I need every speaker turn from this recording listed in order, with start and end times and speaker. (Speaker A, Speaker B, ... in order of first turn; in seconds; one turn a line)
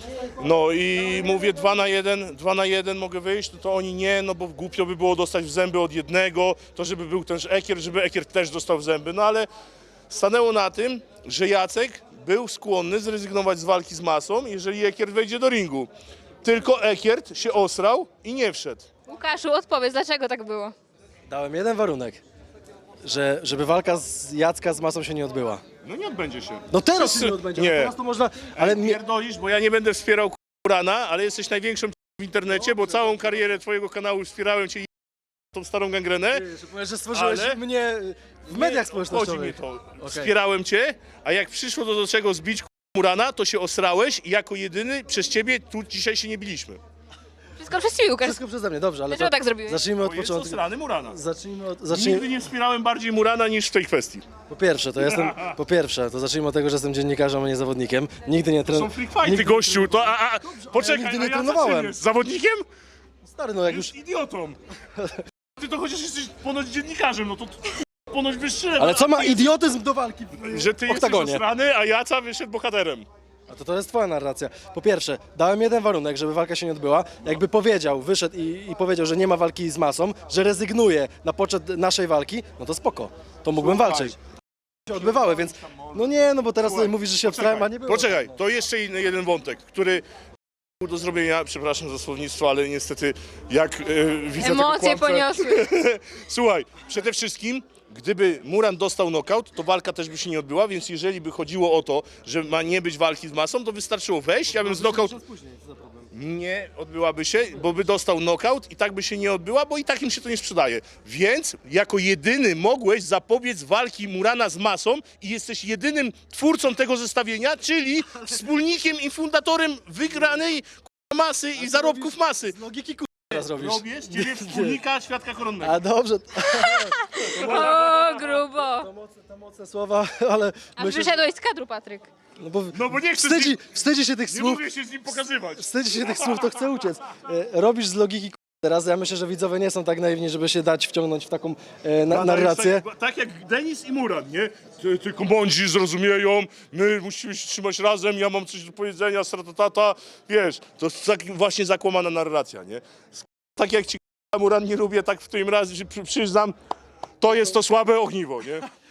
Speaker A: 0.4-9.5
Speaker A: 10.1-15.9
Speaker A: 16.4-18.9
Speaker B: 19.1-20.7
Speaker C: 21.3-22.2
Speaker C: 23.0-25.6
Speaker A: 25.8-27.9
Speaker C: 26.7-29.0
Speaker A: 28.5-34.9
Speaker C: 32.6-33.3
Speaker A: 35.5-36.5
Speaker C: 36.3-40.3
Speaker A: 37.1-37.6
Speaker A: 38.5-46.8
Speaker B: 47.6-48.4
Speaker C: 48.2-52.3
Speaker B: 49.1-49.8
Speaker A: 50.0-51.2
Speaker A: 51.9-54.2
Speaker C: 54.5-62.0
Speaker A: 55.0-55.6
Speaker A: 58.7-62.6
Speaker C: 63.2-63.9
Speaker A: 63.6-64.6
Speaker A: 65.6-69.5
Speaker C: 68.8-71.4
Speaker A: 70.4-73.1
Speaker C: 73.5-84.2
Speaker A: 83.5-84.2
Speaker C: 84.9-88.4
Speaker A: 84.9-86.1
Speaker A: 86.6-90.0
Speaker A: 90.8-105.2
Speaker B: 94.4-95.7
Speaker C: 104.5-106.1
Speaker A: 106.1-122.5
Speaker C: 121.6-124.8
Speaker A: 123.3-125.8
Speaker C: 125.6-127.0
Speaker B: 126.5-128.9
Speaker A: 127.2-128.3
Speaker C: 128.5-131.2
Speaker B: 130.8-132.1
Speaker C: 132.4-134.6
Speaker A: 132.7-133.6
Speaker A: 134.3-136.9
Speaker C: 135.6-142.8
Speaker A: 142.1-156.6
Speaker A: 157.2-158.6